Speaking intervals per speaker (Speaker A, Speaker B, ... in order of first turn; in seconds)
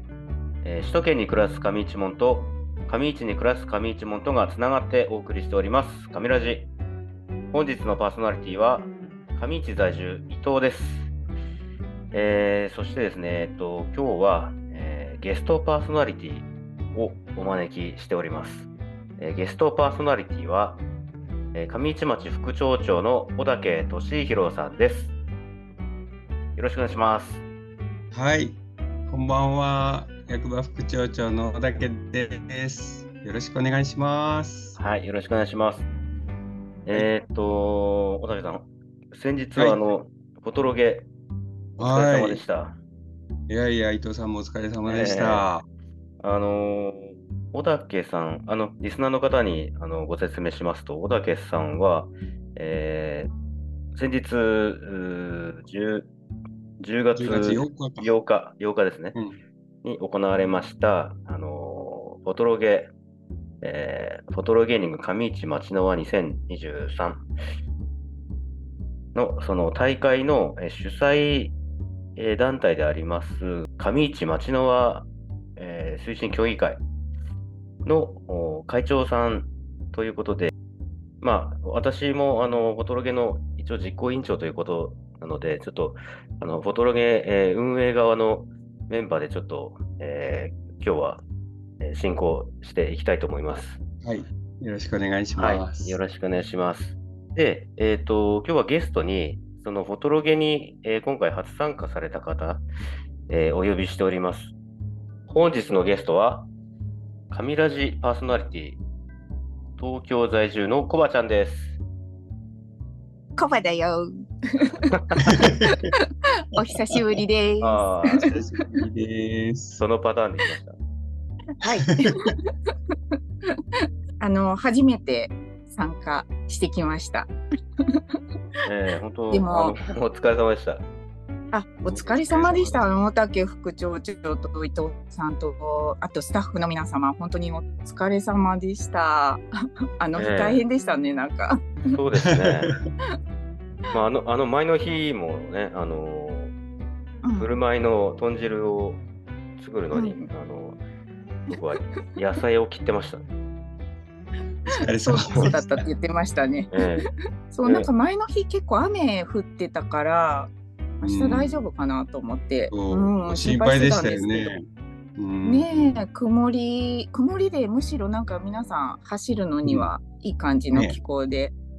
Speaker A: 0.6-6.7, 7.5-11.1, 12.1-20.8, 21.5-25.1, 26.6-27.4, 34.8-35.9, 36.9-41.1, 41.8-42.8, 44.8-45.5, 46.2-53.3, 53.9-56.1, 56.8-59.2, 59.8-62.9, 63.6-67.3, 69.1-71.5, 72.2-76.8, 77.8-80.5, 81.2-91.2, 91.8-93.8, 95.4-102.6, 103.3-104.5, 105.3-106.5, 107.3-108.8, 109.8-111.8, 117.6-118.3, 119.8-120.8, 128.6-130.8, 140.1-140.6, 141.8-142.7, 143.9-146.5, 147.3-149.0, 149.6-150.8, 151.5-153.2, 156.7-157.1, 157.6-157.9
Speaker B: 28.1-34.8, 41.8-42.4, 43.5-45.6, 57.1-58.1, 94.0-96.0, 115.2-115.9, 118.2-119.8, 121.9-122.2, 131.8-132.9, 142.3-142.7, 154.7-155.8, 161.0-161.7, 162.7-164.7, 165.2-166.1
Speaker C: 113.4-115.0, 116.5-118.3, 121.6-122.5, 124.2-127.3, 129.3-129.7, 131.5-139.4, 140.0-141.8, 147.2-147.5, 149.9-150.3, 155.0-156.8, 157.5-164.5, 165.4-171.5